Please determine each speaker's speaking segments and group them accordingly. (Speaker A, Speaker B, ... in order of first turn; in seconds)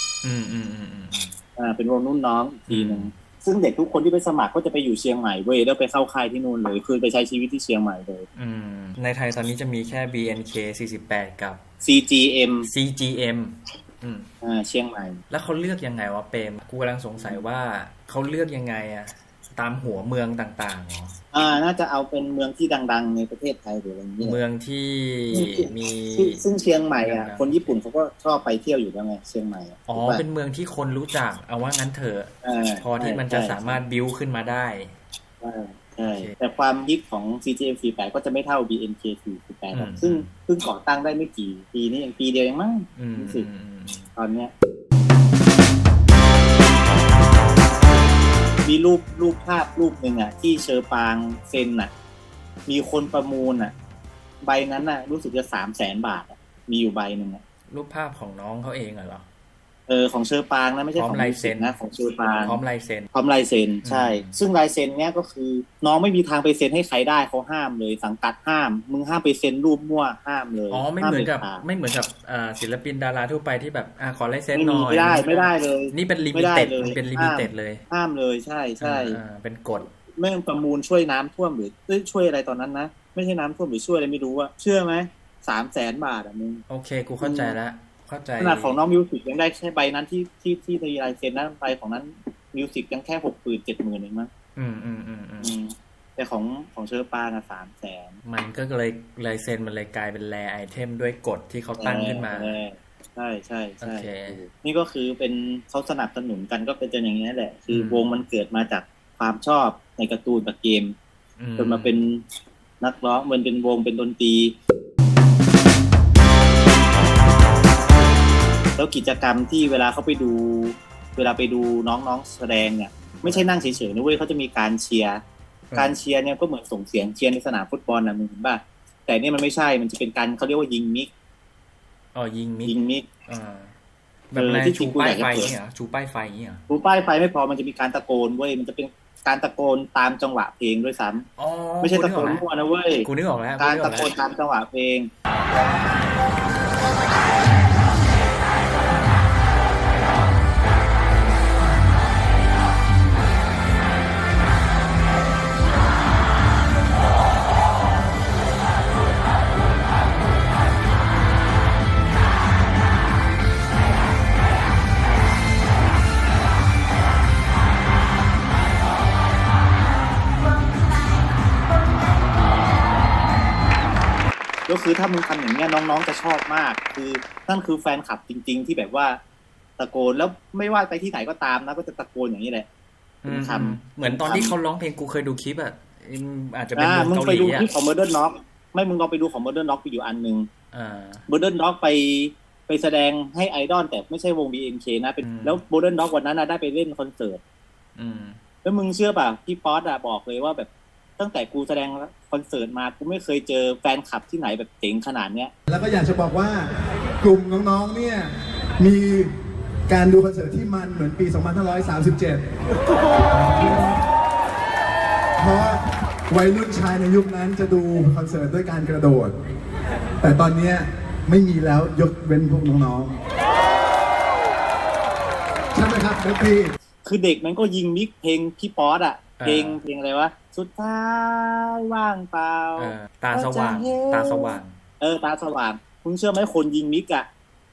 Speaker A: 0.2-1.3, 2.7-3.1, 8.3-11.6, 12.7-14.3, 15.3-21.1, 24.2-26.4, 27.0-27.8, 29.9-34.9, 39.7-40.3, 43.0-44.1, 57.7-59.2, 61.0-61.7, 62.4-63.1, 63.8-64.4, 70.7-77.8, 78.8-79.9, 86.7-88.8, 94.5-95.5, 98.2-102.5, 103.8-104.4, 107.7-108.0, 111.4-112.0, 123.2-123.5, 125.7-126.0, 132.1-132.8, 133.3-133.7, 134.3-136.6, 141.4-142.4, 143.0-144.1, 183.2-187.7, 190.7-191.2, 195.2-195.6, 197.9-198.4, 229.4-229.8, 232.8-234.8
Speaker B: 1.6-8.2, 11.8-12.7, 14.4-15.2, 21.3-24.4, 25.3-30.2, 32.4-33.8, 35.4-43.5, 44.1-44.5, 48.6-51.9, 52.7-53.7, 54.4-57.4, 59.9-62.6, 63.1-71.6, 74.5-79.2, 80.2-86.6, 87.2-87.5, 88.4-94.3, 95.4-98.2, 101.8-111.0, 111.6-112.2, 112.8-114.6, 118.8-125.2, 125.8-131.1, 132.6-133.1, 134.3-135.5, 136.7-141.2, 141.8-143.1, 143.6-145.1, 174.7-179.2, 179.8-182.7, 183.3-184.5, 186.8-190.5, 191.3-197.4, 198.6-205.5, 227.0-237.3
Speaker C: 205.7-206.7, 207.2-209.3, 209.9-212.4, 213.2-214.0, 215.4-219.3, 220.2-223.2, 225.7-226.7